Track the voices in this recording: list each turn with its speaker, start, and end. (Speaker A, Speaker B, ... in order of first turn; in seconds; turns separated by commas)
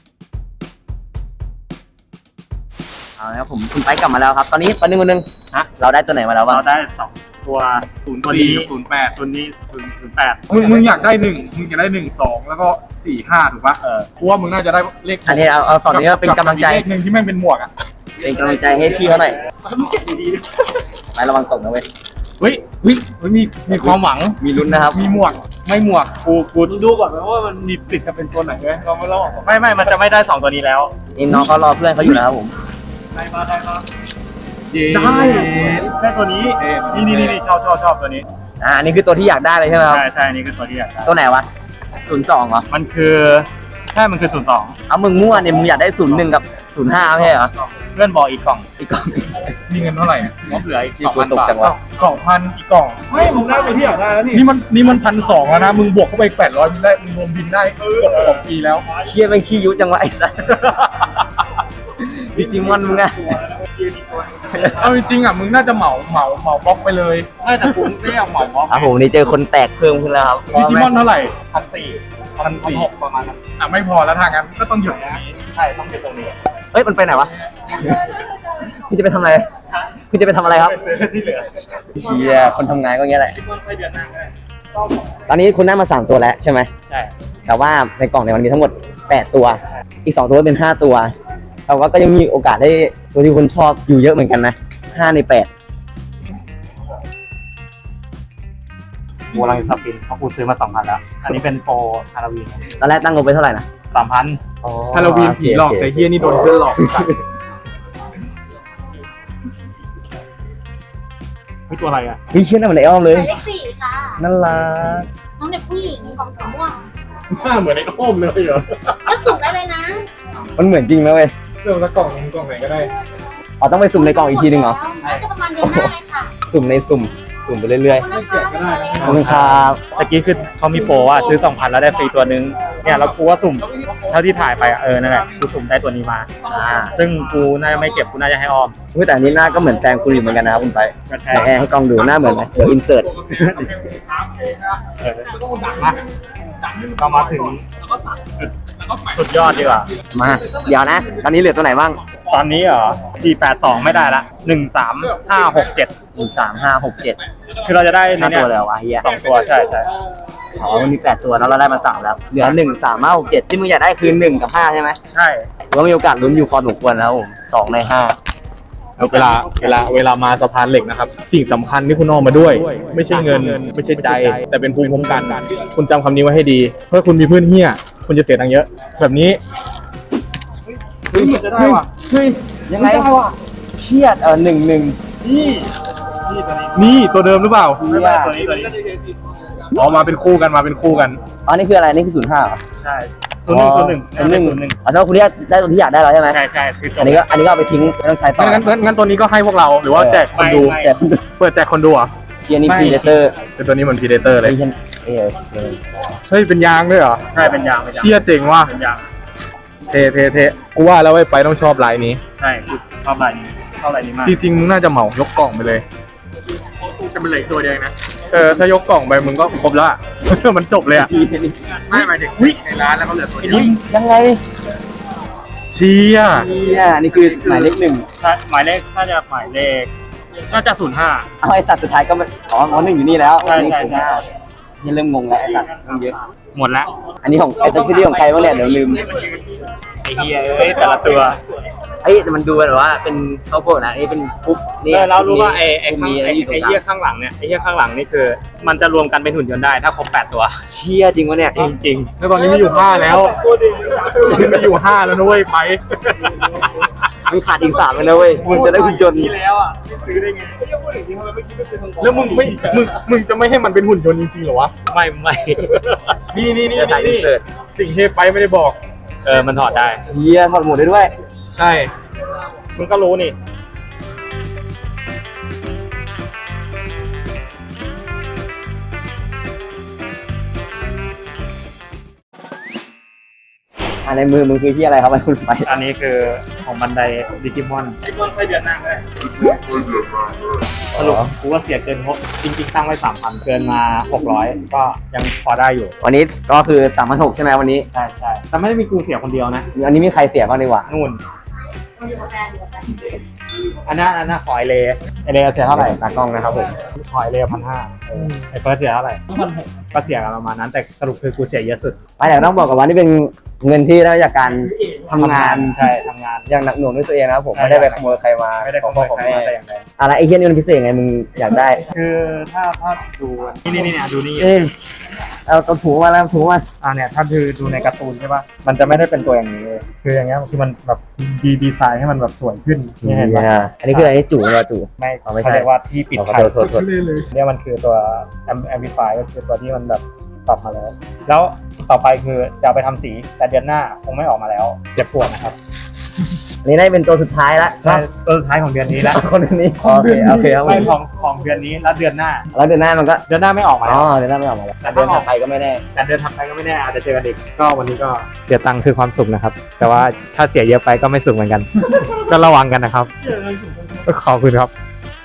Speaker A: 3.2-6.6, Speaker B: 6.5-10.9, Speaker C: 8.1-9.2, Speaker C: 10.5-17.7, Speaker B: 13.8-14.1, Speaker A: 15.2-16.9, Speaker A: 18.2-19.4, Speaker B: 19.6-20.6, Speaker A: 21.1-21.9, Speaker B: 22.4-24.4, Speaker A: 22.8-23.1, Speaker A: 23.7-25.0, Speaker C: 24.8-25.4, Speaker B: 25.6-30.9, Speaker A: 31.1-32.5, Speaker B: 33.1-33.8, Speaker C: 34.7-35.9, Speaker B: 34.9-38.2, Speaker C: 36.6-37.4, Speaker A: 38.6-40.0, Speaker B: 39.9-41.1, Speaker A: 41.0-41.5, Speaker A: 42.0-42.7, Speaker B: 42.7-44.8, Speaker A: 44.9-47.5, Speaker B: 47.6-48.6, Speaker A: 48.8-49.5, Speaker C: 49.7-50.5, Speaker B: 50.5-51.7, Speaker A: 51.0-51.8, Speaker C: 51.5-52.6, Speaker B: 52.6-54.4, Speaker C: 54.3-58.9, Speaker B: 58.0-58.4, Speaker A: 59.0-61.1, Speaker A: 62.0-63.4, Speaker B: 63.5-64.9, Speaker C: 64.8-67.3, Speaker B: 67.4-68.9, Speaker A: 68.7-70.9, Speaker C: 70.5-71.3, Speaker B: 71.5-73.4, Speaker C: 72.4-72.9, Speaker C: 73.6-75.2, Speaker B: 74.8-76.3, Speaker A: 76.7-79.5, Speaker A: 80.1-80.8, Speaker B: 80.5-81.7, Speaker A: 81.9-83.3, Speaker B: 83.4-84.3, Speaker A: 85.2-86.7, Speaker A: 87.5-91.1, Speaker A: 91.7-95.5, Speaker B: 99.3-102.6, Speaker A: 102.8-103.7, Speaker B: 103.9-104.4, Speaker A: 104.6-106.0, Speaker C: 104.9-107.1, Speaker A: 106.7-107.1, Speaker B: 111.7-112.2, Speaker A: 112.3-113.4, Speaker D: 113.1-114.2, Speaker A: 114.2-115.1, Speaker D: 115.4-116.9, Speaker C: 117.3-119.2, Speaker D: 119.0-120.0, Speaker A: 120.5-121.3, Speaker C: 121.6-122.9, Speaker A: 123.6-124.8, Speaker D: 123.9-126.3, Speaker A: 125.6-125.9, Speaker A: 126.5-128.1, Speaker D: 128.1-129.0, Speaker C: 128.1-129.7, Speaker B: 129.0-136.3, Speaker A: 129.0-129.8, Speaker C: 132.8-134.8, Speaker A: 136.4-136.9, Speaker B: 136.9-138.7, Speaker A: 138.9-143.3, Speaker B: 141.1-141.6, Speaker B: 143.4-143.8, Speaker C: 143.4-144.5, Speaker B: 144.8-145.3, Speaker C: 145.3-146.0, Speaker C: 146.6-147.5, Speaker B: 146.9-149.9, Speaker A: 150.1-152.0, Speaker B: 152.2-155.9, Speaker A: 156.1-157.2, Speaker B: 157.6-159.9, Speaker A: 158.2-159.1, Speaker A: 160.6-165.0, Speaker B: 165.1-165.5, Speaker A: 165.7-168.2, Speaker B: 169.0-169.8, Speaker C: 169.0-179.4, Speaker B: 172.3-175.5, Speaker C: 181.1-181.8, Speaker B: 181.1-181.8, Speaker A: 181.1-183.1, Speaker C: 182.8-183.3, Speaker B: 182.8-183.1, Speaker A: 183.7-185.0, Speaker B: 185.2-185.7, Speaker B: 186.2-186.9, Speaker C: 186.7-187.8, Speaker A: 187.8-188.4, Speaker B: 187.8-188.8, Speaker C: 189.7-191.2, Speaker A: 191.4-192.6, Speaker B: 192.8-194.8, Speaker A: 193.5-196.4, Speaker B: 196.3-197.2, Speaker A: 197.0-198.7, Speaker C: 198.4-200.8, Speaker A: 199.9-201.2, Speaker B: 200.3-200.9, Speaker C: 201.4-202.1, Speaker A: 202.4-203.3, Speaker B: 202.7-203.2, Speaker C: 203.6-204.6, Speaker A: 204.4-205.8, Speaker C: 206.3-207.3, Speaker B: 207.3-209.0, Speaker C: 207.9-208.7, Speaker C: 209.9-212.2, Speaker B: 212.4-214.4, Speaker C: 214.2-215.8, Speaker C: 216.8-221.1, Speaker A: 221.0-221.7, Speaker C: 221.9-223.7, Speaker A: 223.4-224.4, Speaker C: 225.7-226.5, Speaker A: 226.3-228.1, Speaker B: 228.2-229.9, Speaker B: 230.5-231.3, Speaker A: 231.4-234.2, Speaker B: 233.4-234.2, Speaker A: 234.8-236.2, Speaker B: 235.9-236.9, Speaker A: 237.2-239.0, Speaker B: 237.6-241.4, Speaker A: 242.0-246.8, Speaker B: 244.9-250.6, Speaker A: 250.7-251.7, Speaker B: 251.5-252.1, Speaker C: 252.2-255.8, Speaker B: 253.4-254.3, Speaker B: 256.1-256.8, Speaker A: 257.2-259.3, Speaker B: 258.4-262.4, Speaker C: 262.0-264.7, Speaker B: 264.9-266.2, Speaker C: 266.3-268.8, Speaker A: 266.7-267.4, Speaker B: 269.2-270.0, Speaker A: 270.1-271.1, Speaker C: 271.5-271.9, Speaker B: 272.8-273.4, Speaker A: 284.0-285.7, Speaker B: 285.6-290.1, Speaker A: 290.9-291.3, Speaker B: 290.9-295.9, Speaker A: 296.0-297.9, Speaker B: 297.9-299.7, Speaker A: 299.7-300.9, Speaker B: 300.9-301.2, Speaker B: 302.2-302.6, Speaker B: 303.8-306.0, Speaker A: 305.7-306.7, Speaker B: 306.9-312.0, Speaker A: 312.2-315.8, Speaker B: 314.9-316.5, Speaker A: 316.5-321.8, Speaker B: 317.5-319.8, Speaker B: 321.9-324.5, Speaker A: 324.4-324.7, Speaker A: 325.4-326.6, Speaker B: 326.8-334.1, Speaker A: 333.0-336.9, Speaker B: 335.0-336.7, Speaker C: 336.9-337.2, Speaker B: 337.3-345.6, Speaker A: 346.6-348.1, Speaker B: 347.8-349.2, Speaker A: 349.0-350.9, Speaker B: 349.8-352.4, Speaker A: 352.5-353.2, Speaker B: 353.3-354.1, Speaker A: 353.8-355.8, Speaker B: 354.8-355.3, Speaker B: 355.9-364.7